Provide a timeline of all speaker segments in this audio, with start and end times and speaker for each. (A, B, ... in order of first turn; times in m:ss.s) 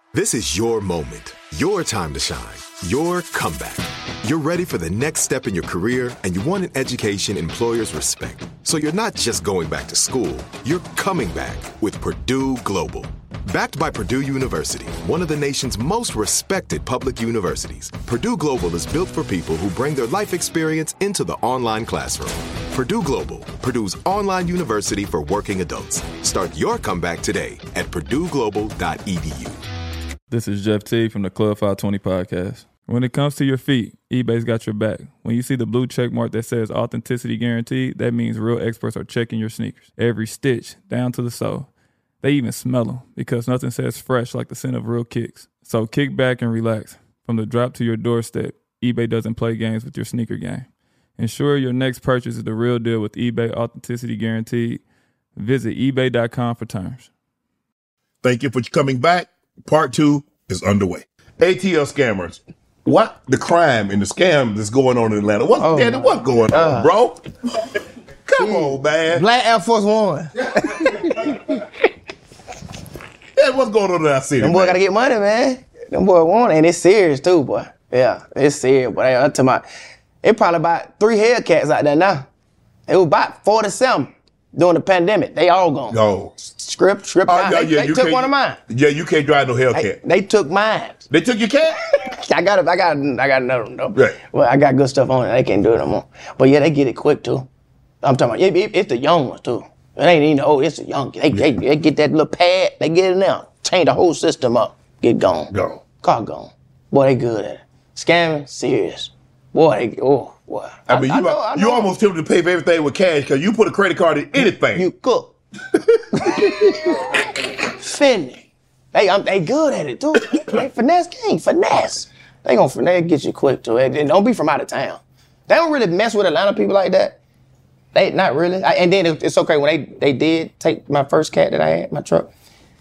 0:00.1-0:29.6 A
0:30.3-0:41.7 B
0:42.2-0:50.6 B
0:51.2-0:54.8 B
0:55.4-0:57.1 B
0:58.2-1:07.6 C
1:05.6-1:06.9 D
1:08.2-1:09.2 C
1:08.4-1:11.6 D
1:13.3-1:14.8 C
1:14.4-1:19.6 D
1:20.2-1:22.2 D
1:22.9-1:28.6 D
1:25.9-1:26.4 C
1:27.2-1:30.0 C
1:29.7-1:31.0 D
1:31.1-1:31.8 C
1:31.9-1:37.5 D
1:38.0-1:51.9 D
1:45.5-1:45.8 C
1:50.9-1:54.9 C
1:54.4-1:55.3 D
1:55.8-1:56.8 C
1:56.2-2:07.2 D
2:07.9-2:12.3 D